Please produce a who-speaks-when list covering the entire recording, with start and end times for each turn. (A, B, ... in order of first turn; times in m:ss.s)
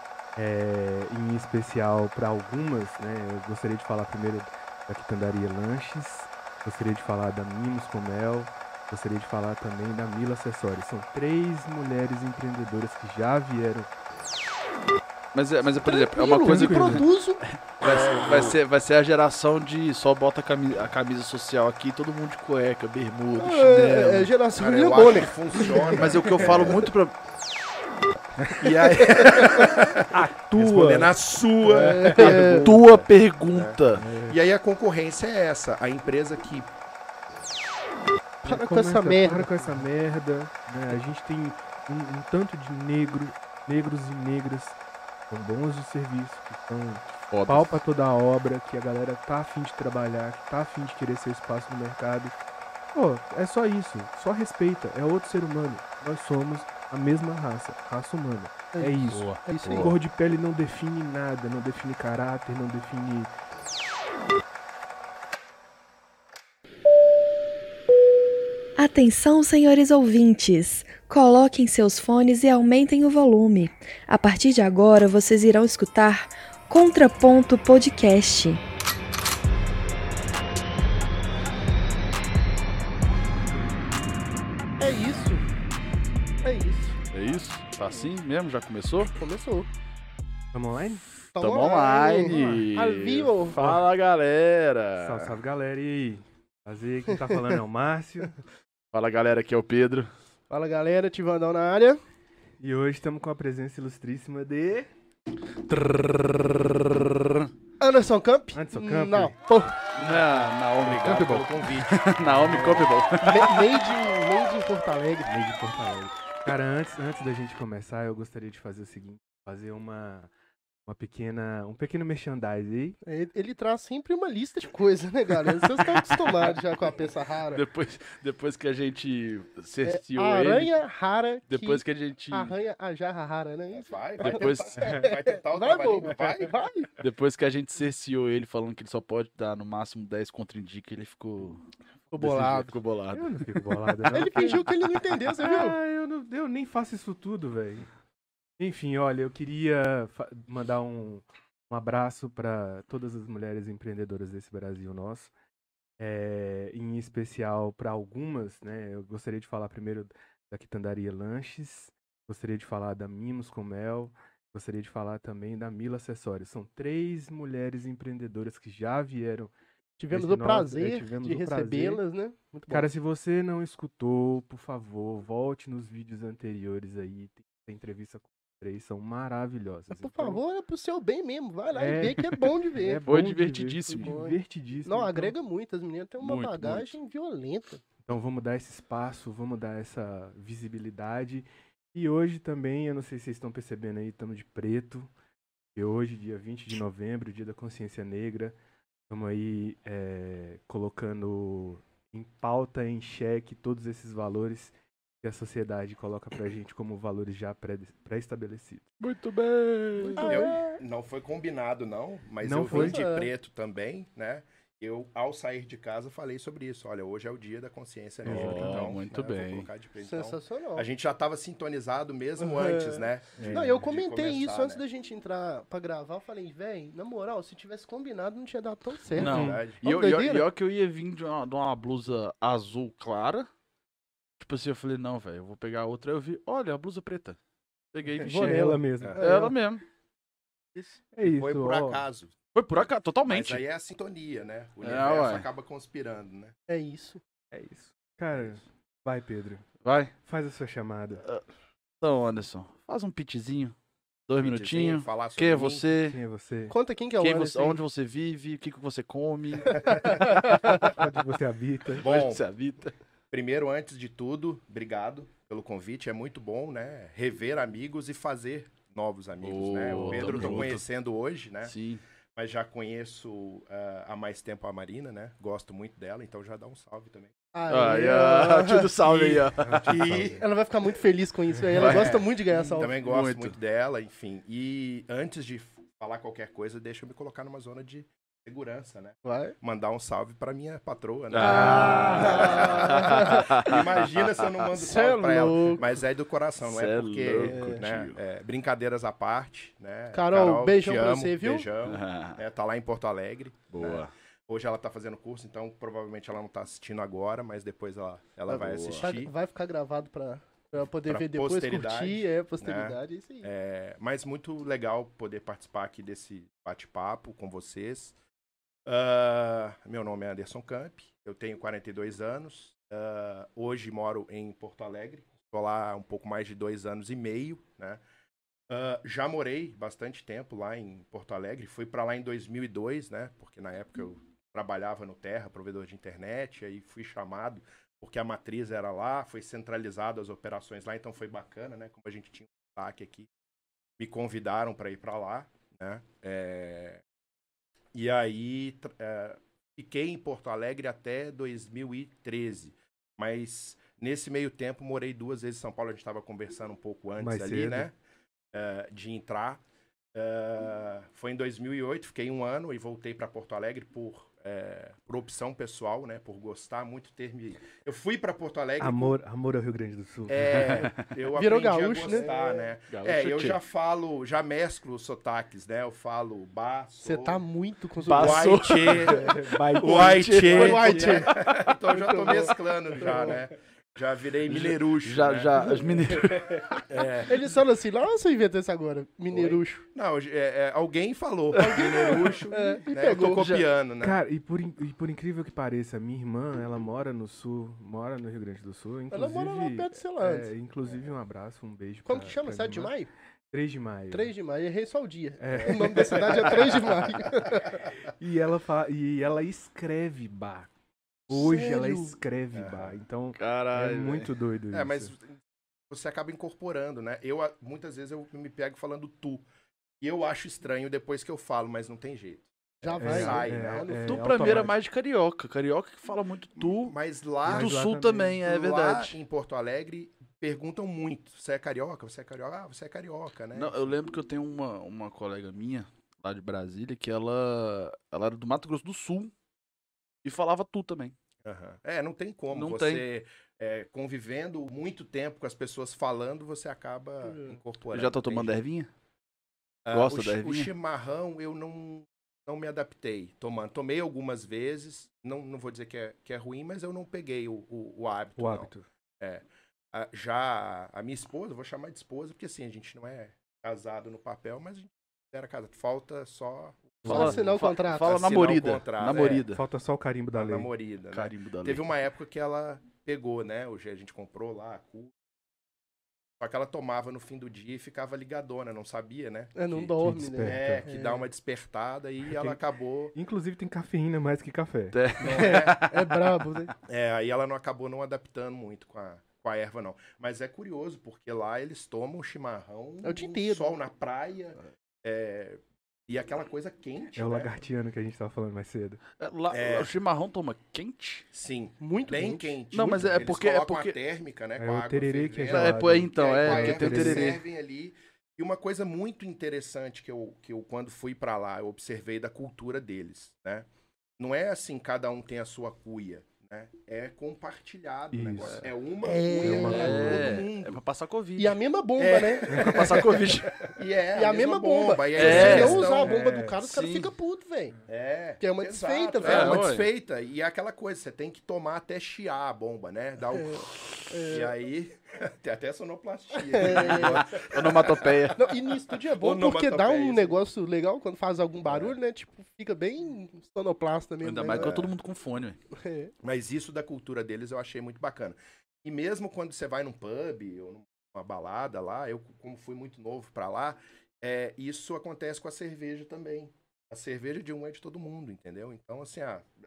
0:00.4-0:13.9 A
0:15.3-0:24.3 B
0:15.8-0:17.4 C
0:16.4-0:17.0 A
0:17.8-0:18.6 D
0:23.4-0:26.0 C
0:24.5-0:26.9 D
0:25.9-0:27.1 B
0:28.4-0:28.7 A
0:28.6-0:36.8 D
0:28.9-0:29.7 C
0:30.0-0:32.3 A
0:31.7-0:32.7 C
0:32.2-0:34.0 B
0:34.0-0:34.4 A
0:38.4-0:39.8 C
0:38.4-0:44.8 A
0:45.3-0:52.3 A
0:47.3-0:47.8 B
0:52.9-1:03.3 A
0:58.7-0:59.9 C
0:59.1-0:59.9 B
1:08.8-1:18.6 E
1:24.8-1:25.4 C
1:26.4-1:27.0 C
1:27.1-1:29.1 B
1:29.1-1:29.7 C
1:30.5-1:31.0 A
1:31.3-1:33.6 C
1:31.4-1:35.3 B
1:32.3-1:32.7 A
1:33.6-1:33.8 A
1:35.0-1:38.4 A
1:38.9-1:40.1 B
1:40.5-1:42.0 C
1:42.6-1:44.9 A
1:45.7-1:47.4 B
1:47.8-1:49.8 C
1:48.5-1:49.4 A
1:50.0-1:53.6 B
1:50.0-1:52.9 A
1:50.8-1:52.1 D
1:53.2-1:55.3 C
1:55.2-2:00.3 A
2:00.8-2:03.0 A
2:03.0-2:07.6 C
2:05.8-2:06.5 B
2:07.5-2:10.7 B
2:09.8-2:16.9 C
2:11.5-2:12.5 B
2:13.7-2:16.5 D
2:14.2-2:14.8 B
2:14.8-2:15.1 A
2:17.0-2:25.2 B
2:22.1-2:22.8 C
2:23.1-2:24.6 A
2:24.1-2:25.8 C
2:25.4-2:27.9 A
2:28.6-2:35.3 A
2:36.0-2:49.5 A
2:50.0-2:52.9 C
2:50.1-2:52.0 A
2:52.7-3:00.4 A
2:59.9-3:03.0 C
3:01.8-3:05.3 A
3:03.1-3:04.2 B
3:03.8-3:07.8 C
3:06.2-3:07.0 B
3:08.1-3:15.1 A
3:15.8-3:18.6 A
3:19.1-3:28.8 A
3:29.0-3:30.4 B
3:30.0-3:30.8 C
3:30.2-3:44.8 D
3:32.4-3:33.0 A
3:32.7-3:33.3 C
3:38.2-3:39.7 B
3:38.2-3:39.0 A
3:40.0-3:40.8 C
3:42.4-3:50.4 C
3:43.4-3:43.8 A
3:49.1-3:53.5 B
3:49.2-3:49.7 A
3:49.3-3:49.8 D
3:54.4-3:57.4 B
3:57.9-3:59.8 B
3:58.2-3:59.5 A
3:58.2-3:59.5 C
4:01.1-4:02.1 A
4:01.2-4:02.3 D
4:02.5-4:03.6 B
4:03.3-4:06.5 D
4:04.8-4:05.5 B
4:06.7-4:07.2 C
4:07.5-4:09.7 A
4:09.8-4:10.1 B
4:10.2-4:11.2 A
4:12.0-4:13.7 B
4:14.3-4:16.2 B
4:14.4-4:15.9 D
4:16.0-4:16.8 A
4:16.7-4:17.8 C
4:17.2-4:20.9 B
4:19.8-4:20.8 C
4:20.8-4:22.0 A
4:22.0-4:22.9 B
4:22.0-4:22.4 D
4:23.3-4:31.8 D
4:29.4-4:30.8 B
4:30.0-4:30.6 A
4:31.6-4:32.0 B
4:32.4-4:37.3 D
4:37.5-4:39.5 C
4:37.7-4:40.0 B
4:39.6-4:40.5 A
4:39.7-4:40.4 D
4:40.4-4:43.0 C
4:41.7-4:42.2 B
4:41.8-5:09.3 D
4:43.0-4:43.6 B
4:49.2-4:49.6 C
4:51.3-4:54.5 B
4:51.4-4:53.6 C
4:54.7-4:55.9 C
4:56.6-4:58.2 B
4:57.5-4:57.8 C
5:00.1-5:01.7 C
5:01.8-5:02.4 B
5:03.7-5:04.1 B
5:08.5-5:13.5 C
5:08.5-5:09.2 B
5:10.8-5:18.2 D
5:18.9-5:28.0 D
5:28.7-5:43.3 D
5:44.0-5:47.0 D
5:47.9-5:57.9 D
5:57.2-5:57.9 A
5:58.5-5:59.6 D
6:00.1-6:09.2 D
6:08.8-6:10.8 A
6:10.3-6:17.4 D
6:10.6-6:11.0 B
6:11.3-6:12.6 C
6:12.0-6:12.5 A
6:12.9-6:13.6 B
6:17.0-6:19.3 C
6:18.1-6:20.8 B
6:18.1-6:25.8 D
6:19.0-6:21.6 A
6:20.5-6:21.3 C
6:21.9-6:23.4 C
6:23.0-6:23.4 A
6:24.5-6:26.9 B
6:25.6-6:26.0 C
6:26.9-6:27.4 D
6:27.3-6:29.8 C
6:29.3-6:34.2 D
6:31.6-6:32.4 B
6:31.6-6:33.5 C
6:33.2-6:33.6 B
6:34.0-6:42.9 A
6:39.1-6:40.5 C
6:42.1-6:43.1 C
6:43.5-6:44.3 A
6:44.1-6:47.8 C
6:45.4-6:46.5 A
6:45.5-6:46.2 D
6:46.4-6:47.0 B
6:48.1-6:50.7 A
6:51.3-6:55.1 A
6:51.3-6:52.2 C
6:52.5-6:53.0 D
6:53.4-6:54.3 B
6:54.7-6:59.4 D
7:00.0-7:04.1 D
7:02.8-7:04.6 C
7:03.0-7:04.7 A
7:04.1-7:07.0 B
7:06.6-7:07.8 D
7:07.5-7:08.4 A
7:07.5-7:09.2 B
7:08.4-7:13.9 D
7:13.5-7:19.3 B
7:20.2-7:21.2 B
7:21.4-7:28.6 D
7:22.5-7:23.0 B
7:27.2-7:27.6 C
7:27.9-7:28.9 B
7:29.8-7:49.5 D
7:29.9-7:30.7 B
7:38.4-7:38.8 A
7:47.0-7:47.4 A
7:47.0-7:49.6 B
7:47.1-7:48.1 C
7:49.5-7:50.7 A
7:50.3-7:55.1 D
7:51.1-7:51.9 B
7:56.4-7:59.9 D
7:59.6-8:01.3 C
8:00.0-8:00.9 A
8:00.4-8:03.2 D
8:02.2-8:02.6 A
8:03.1-8:05.0 A
8:04.9-8:06.4 B
8:05.2-8:05.8 D
8:05.2-8:06.7 C
8:06.9-8:17.5 D
8:13.0-8:13.8 C
8:17.2-8:19.0 A
8:19.2-8:21.3 B
8:19.5-8:19.9 D
8:21.3-8:33.7 D
8:21.8-8:22.5 C
8:22.7-8:24.0 B
8:24.6-8:27.3 A
8:25.5-8:27.4 B
8:34.2-8:40.8 D
8:38.1-8:38.6 A
8:39.0-8:40.1 C
8:39.4-8:40.3 A
8:39.6-8:41.6 B
8:41.4-8:43.2 C
8:42.0-8:46.2 D
8:42.5-8:42.8 A
8:42.7-8:43.6 B
8:44.1-8:47.7 C
8:45.1-8:45.8 B
8:45.2-8:46.6 A
8:46.6-8:47.1 B
8:47.9-8:58.4 D
8:48.4-8:49.6 C
8:49.2-8:49.9 B
8:53.3-8:54.5 C
8:56.4-8:57.3 C
8:56.7-8:58.5 B
8:58.3-9:04.8 C
8:58.9-9:00.4 D
9:01.6-9:02.0 D
9:04.2-9:05.6 B
9:04.5-9:04.9 D
9:05.8-9:06.1 C
9:06.2-9:19.5 D